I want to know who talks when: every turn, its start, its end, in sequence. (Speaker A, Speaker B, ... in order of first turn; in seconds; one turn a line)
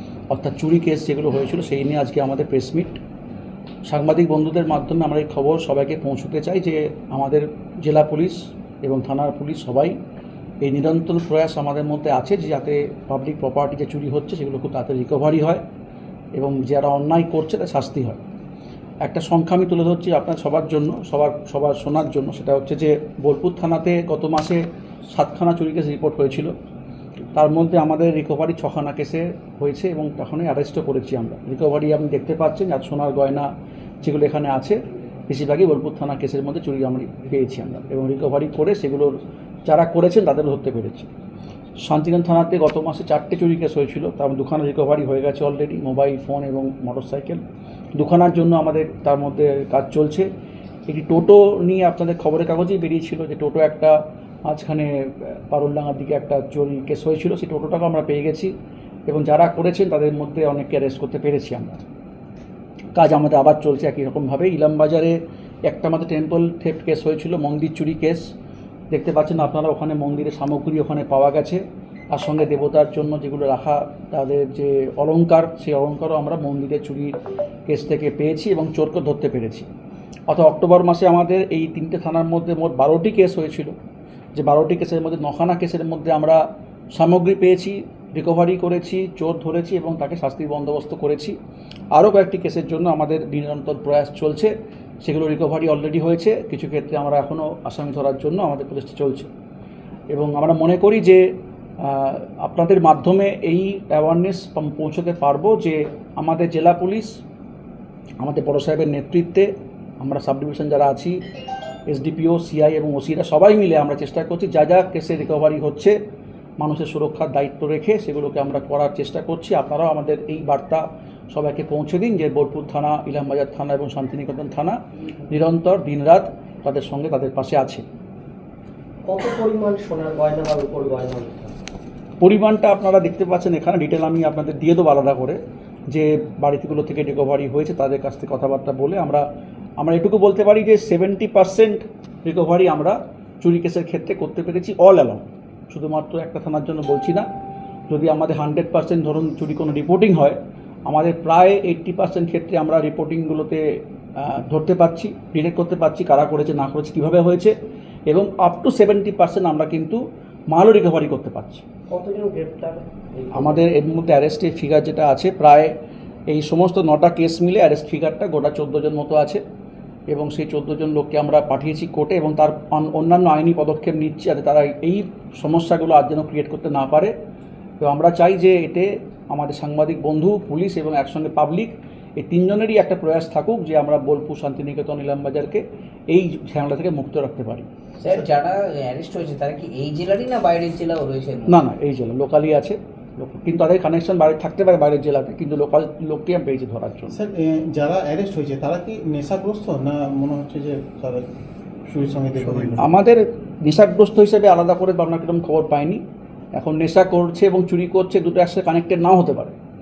Speaker A: 0.3-3.0
Speaker A: 3.9-9.9
Speaker A: 10.6-15.6
Speaker A: 16.3-18.2
Speaker A: 19.0-26.5
Speaker A: 27.3-33.5
Speaker A: 34.0-39.1
Speaker A: 39.6-41.1
Speaker A: 41.8-47.4
Speaker A: 47.9-50.3
Speaker A: 50.9-58.5
Speaker A: 59.1-61.8
Speaker A: 63.0-68.3
Speaker A: 68.9-77.1
Speaker A: 77.7-79.7
Speaker A: 80.3-83.7
Speaker A: 84.3-91.3
Speaker A: 91.9-99.3
Speaker A: 100.1-101.2
Speaker A: 101.8-107.1
Speaker A: 108.2-109.5
Speaker A: 110.0-111.2
Speaker A: 111.9-116.0
Speaker A: 116.6-127.8
Speaker B: 129.1-131.5
Speaker A: 132.2-139.2
Speaker A: 139.8-147.2
Speaker A: 147.9-157.5
Speaker A: 158.1-161.6
Speaker B: 161.9-163.6
Speaker A: 163.3-165.7
Speaker A: 166.3-169.4
Speaker A: 170.1-177.1
Speaker A: 177.8-187.7
Speaker C: 188.0-191.6
Speaker A: 191.5-197.2
Speaker D: 197.1-201.3
Speaker D: 201.9-202.9
Speaker A: 202.8-206.0
Speaker A: 206.6-209.6